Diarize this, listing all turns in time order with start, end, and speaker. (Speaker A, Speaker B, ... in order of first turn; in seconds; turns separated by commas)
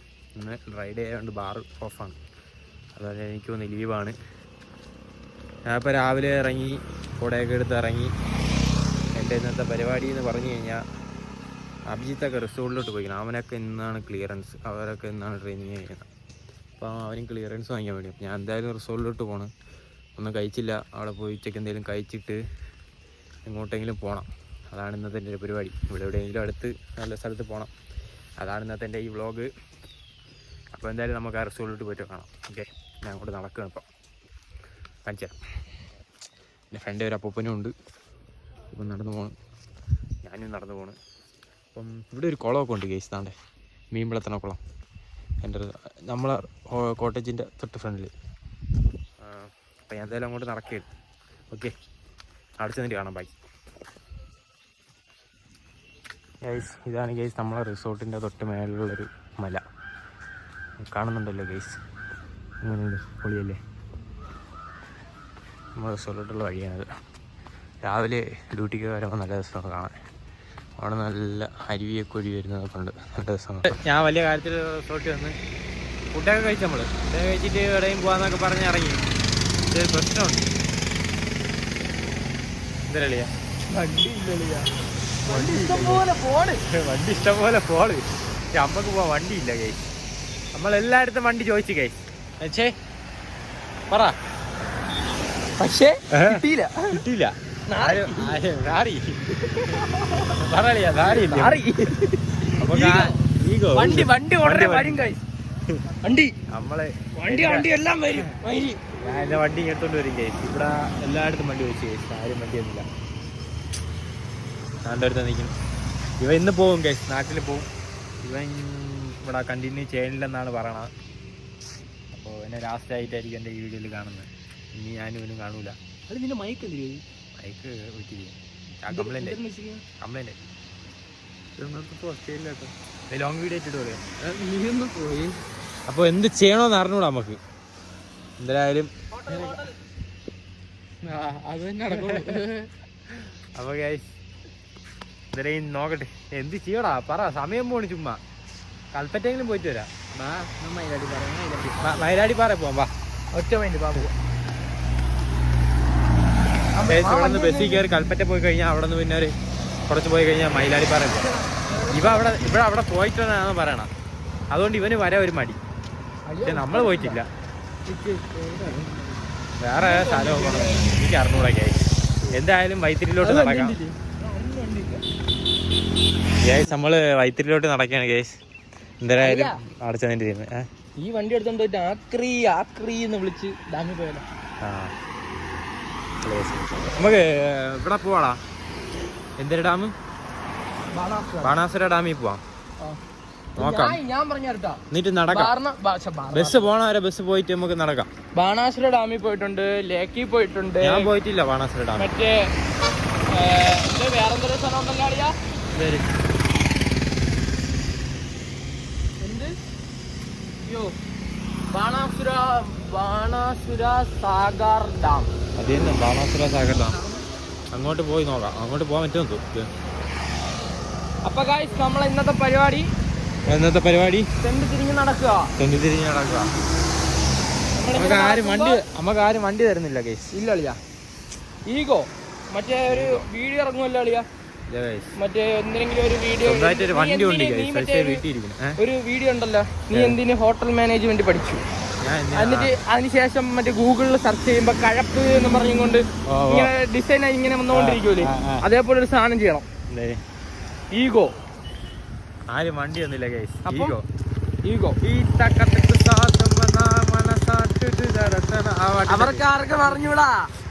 Speaker A: 0.3-2.2, Speaker A: 3.0-4.2, Speaker A: 5.7-8.1, Speaker A: 9.1-10.8, Speaker A: 11.9-16.1, Speaker A: 16.8-19.5, Speaker A: 20.2-22.4, Speaker A: 23.4-27.7, Speaker A: 28.4-29.5, Speaker A: 30.7-33.8, Speaker A: 35.0-35.4, Speaker A: 36.7-37.7, Speaker A: 38.7-39.3, Speaker A: 40.2-41.0, Speaker A: 41.7-43.3, Speaker A: 43.9-44.6, Speaker A: 45.4-48.1, Speaker A: 49.2-50.9, Speaker A: 52.6-53.3, Speaker A: 56.4-59.6, Speaker A: 60.8-61.8, Speaker A: 62.6-63.6, Speaker A: 65.8-66.9, Speaker A: 67.8-69.9, Speaker A: 70.8-75.3, Speaker A: 76.1-79.0, Speaker A: 79.7-80.5, Speaker A: 82.9-83.3, Speaker B: 83.7-84.7, Speaker A: 85.2-86.0, Speaker B: 85.2-86.6, Speaker A: 86.7-89.8, Speaker A: 90.5-92.7, Speaker A: 93.9-94.1, Speaker B: 95.6-97.0, Speaker A: 96.1-99.2, Speaker B: 97.7-98.4, Speaker B: 99.3-100.3, Speaker A: 99.8-101.7, Speaker B: 101.0-103.2, Speaker A: 102.4-105.1, Speaker B: 103.7-105.2, Speaker B: 106.0-106.3, Speaker A: 106.5-108.3, Speaker B: 107.2-108.9, Speaker A: 109.0-112.8, Speaker A: 114.8-115.5, Speaker A: 116.2-117.7, Speaker A: 118.2-120.9, Speaker A: 122.1-125.8, Speaker B: 126.1-127.0, Speaker A: 127.4-129.4, Speaker B: 128.9-129.8, Speaker A: 130.0-130.3, Speaker A: 131.6-134.0, Speaker B: 134.2-135.4, Speaker A: 135.9-137.4, Speaker A: 138.4-138.9, Speaker B: 139.1-139.8, Speaker B: 141.0-142.7, Speaker A: 141.9-142.4, Speaker A: 143.2-144.1, Speaker A: 145.3-148.2, Speaker A: 148.9-149.9, Speaker B: 150.1-152.0, Speaker A: 151.7-152.9, Speaker B: 153.3-154.1, Speaker B: 156.7-157.8, Speaker A: 156.9-159.3, Speaker A: 159.9-161.3, Speaker B: 161.2-162.6, Speaker A: 161.9-163.9, Speaker A: 164.5-165.6, Speaker B: 166.2-167.2, Speaker A: 166.4-167.3, Speaker B: 167.8-171.0, Speaker A: 169.6-173.8, Speaker B: 173.2-175.0, Speaker A: 176.4-178.3, Speaker A: 179.0-180.6, Speaker B: 179.2-179.6, Speaker B: 181.0-184.2, Speaker A: 184.6-184.9, Speaker A: 186.2-188.4, Speaker A: 189.4-189.9, Speaker B: 190.9-191.6, Speaker A: 191.4-192.4, Speaker B: 193.6-196.7, Speaker A: 193.6-194.0, Speaker A: 194.9-195.5, Speaker A: 196.3-198.1, Speaker B: 198.3-201.1, Speaker A: 200.8-202.1, Speaker B: 201.9-202.5, Speaker B: 203.3-205.3, Speaker A: 205.7-206.1, Speaker B: 209.2-209.5, Speaker B: 210.6-210.9, Speaker B: 211.7-215.3, Speaker A: 215.6-217.0, Speaker B: 216.9-217.3, Speaker A: 217.7-219.7, Speaker B: 221.2-222.9, Speaker A: 223.5-224.3, Speaker B: 224.4-225.5, Speaker A: 225.6-226.5, Speaker B: 227.7-228.8, Speaker A: 227.9-230.3, Speaker B: 230.3-230.8, Speaker B: 231.7-234.2, Speaker A: 232.9-233.2, Speaker A: 234.7-235.1, Speaker B: 235.1-238.2, Speaker A: 236.4-238.8, Speaker B: 238.8-241.6, Speaker A: 242.0-242.7, Speaker B: 242.3-249.7, Speaker A: 246.2-246.7, Speaker A: 247.7-248.7, Speaker A: 249.9-250.2, Speaker B: 250.9-251.3, Speaker A: 252.5-254.0, Speaker B: 253.6-253.9, Speaker B: 254.6-255.0, Speaker A: 255.0-260.0, Speaker B: 259.1-260.5